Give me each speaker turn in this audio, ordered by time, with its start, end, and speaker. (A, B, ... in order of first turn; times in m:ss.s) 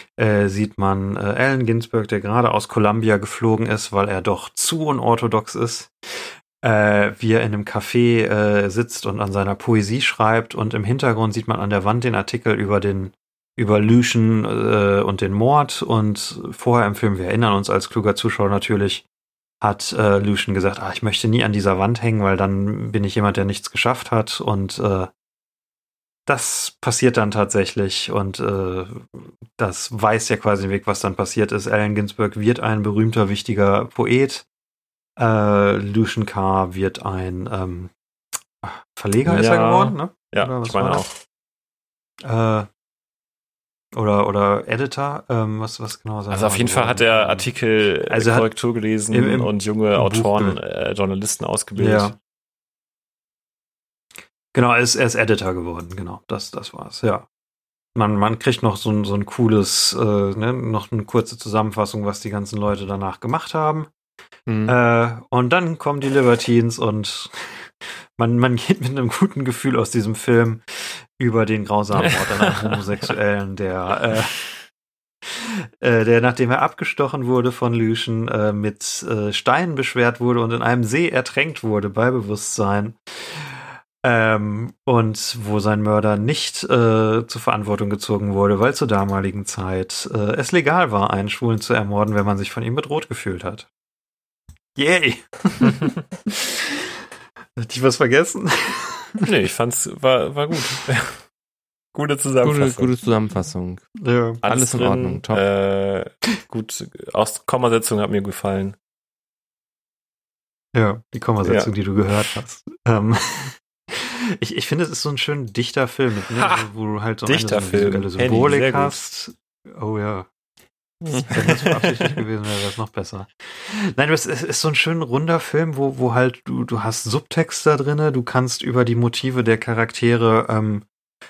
0:00.2-0:19.0 A
0:19.6-0:25.1 A
0:26.2-0:34.4 A
0:35.2-0:37.9 A
0:38.6-0:41.1 A
0:39.2-0:41.2 B
0:42.2-0:42.7 A
0:43.9-0:47.5 A
0:46.3-0:52.1 B
0:48.0-0:48.5 A
0:49.1-0:50.6 A
0:51.8-0:52.2 A
0:54.5-0:57.3 A
0:57.9-1:03.9 A
1:04.5-1:04.8 C
1:04.6-1:14.5 A
1:12.0-1:12.8 B
1:15.8-1:33.7 A
1:34.8-1:36.7 A
1:37.6-1:39.3 A
1:39.2-1:41.2 B
1:41.9-1:42.9 B
1:42.4-1:43.9 C
1:44.0-1:44.4 A
1:44.4-1:48.8 B
1:44.4-1:45.4 C
1:50.7-2:00.3 A
1:51.4-1:51.7 B
1:57.2-1:59.0 B
2:01.0-2:01.4 C
2:01.1-2:10.8 A